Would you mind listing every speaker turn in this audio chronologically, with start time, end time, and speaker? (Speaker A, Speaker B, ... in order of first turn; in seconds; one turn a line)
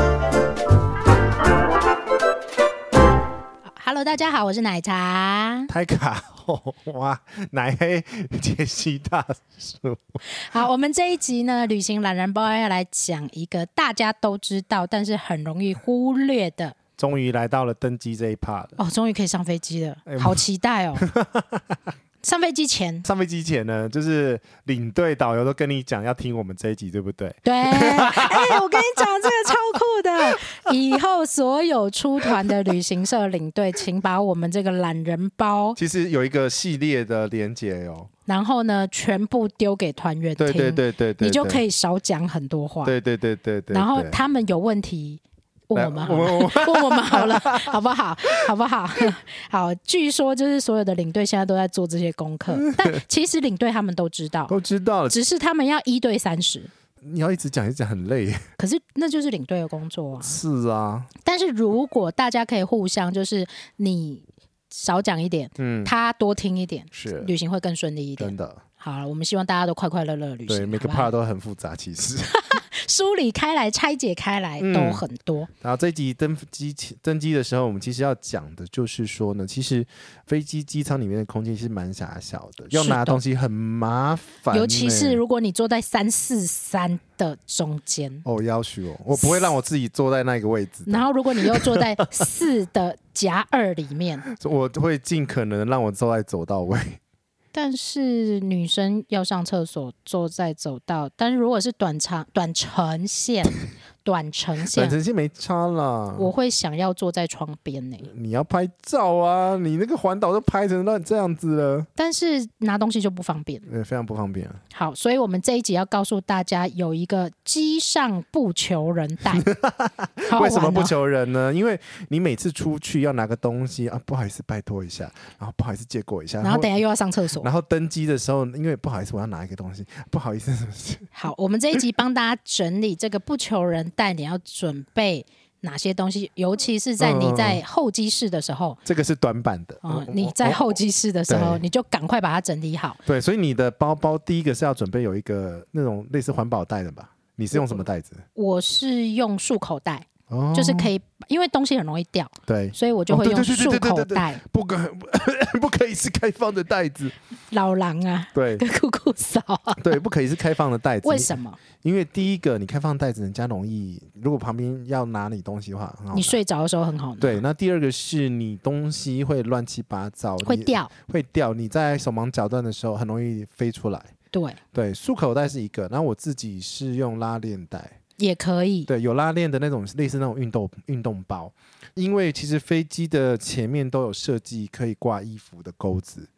Speaker A: 3.7-5.7
Speaker B: 5.7-10.2
Speaker A: 10.2-16.8
Speaker B: 17.0-18.8
Speaker A: 18.8-21.1
Speaker B: 20.1-20.4
Speaker B: 21.0-21.8
Speaker A: 22.2-23.1
Speaker B: 23.0-29.5
Speaker A: 27.4-35.8
Speaker B: 35.8-38.1
Speaker A: 38.3-42.9
Speaker B: 40.4-41.6
Speaker B: 42.9-44.2
Speaker A: 43.7-54.6
Speaker B: 45.7-47.8
Speaker B: 52.5-52.9
Speaker B: 54.5-55.2
Speaker A: 55.1-56.7
Speaker B: 57.0-58.4
Speaker A: 58.6-60.4
Speaker B: 60.2-61.1
Speaker A: 61.2-71.1
Speaker B: 65.6-65.9
Speaker B: 66.9-67.3
Speaker B: 68.2-68.6
Speaker B: 70.5-72.4
Speaker A: 72.3-75.5
Speaker B: 74.6-75.0
Speaker B: 75.6-85.2
Speaker A: 82.7-83.2
Speaker A: 84.5-88.2
Speaker B: 88.2-91.9
Speaker A: 89.1-89.5
Speaker A: 90.9-94.2
Speaker B: 94.3-97.0
Speaker A: 97.5-105.0
Speaker B: 104.7-106.3
Speaker A: 106.2-108.1
Speaker B: 108.0-111.9
Speaker A: 112.0-113.7
Speaker B: 113.7-114.6
Speaker A: 114.7-119.5
Speaker B: 119.4-126.7
Speaker A: 120.3-121.0
Speaker A: 126.4-127.5
Speaker B: 127.4-131.1
Speaker A: 131.1-138.8
Speaker B: 137.0-137.6
Speaker B: 138.8-141.6
Speaker A: 139.8-143.0
Speaker B: 143.1-148.2
Speaker A: 147.5-147.8
Speaker A: 148.3-154.4
Speaker B: 150.3-150.9
Speaker B: 152.5-157.2
Speaker A: 157.5-160.0
Speaker B: 158.3-158.7
Speaker B: 159.8-166.4
Speaker A: 161.0-161.6
Speaker A: 166.1-167.4
Speaker B: 167.2-174.1
Speaker A: 170.4-170.9
Speaker A: 174.3-174.6
Speaker B: 174.7-177.9
Speaker A: 178.2-178.9
Speaker B: 178.9-186.3